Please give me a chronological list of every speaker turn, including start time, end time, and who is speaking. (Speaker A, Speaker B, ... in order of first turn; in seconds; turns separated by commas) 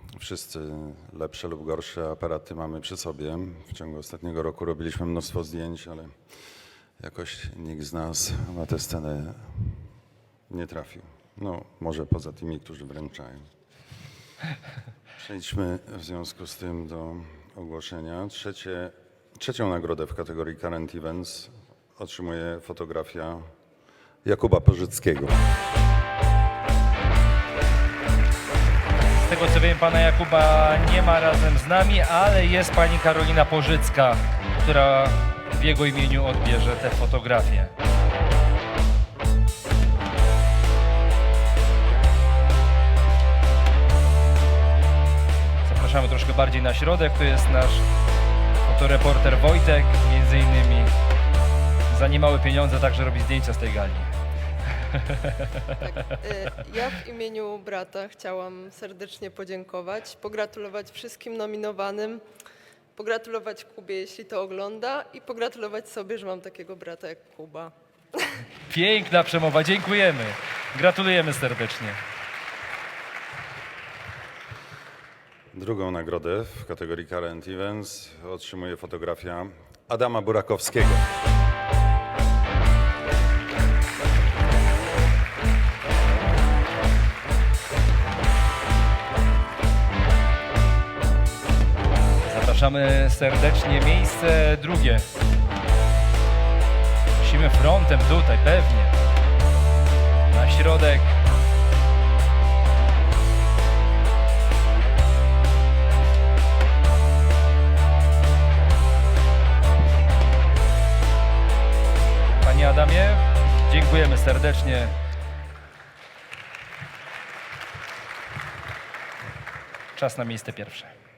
Speaker A: 0.2-6.1, Speaker A: 7.0-9.4, Speaker A: 10.5-13.4, Speaker A: 15.2-23.3, Speaker A: 24.2-25.4, Speaker B: 29.2-37.7, Speaker B: 45.6-47.8, Speaker B: 48.6-50.9, Speaker B: 51.9-54.1, Speaker B: 54.9-55.5, Speaker C: 55.8-62.2, Speaker C: 63.0-68.3, Speaker B: 68.7-72.0, Speaker A: 75.5-79.3, Speaker A: 79.9-80.9, Speaker B: 92.2-95.0, Speaker B: 97.2-99.0, Speaker B: 100.3-101.2, Speaker B: 112.4-114.9, Speaker B: 119.9-120.9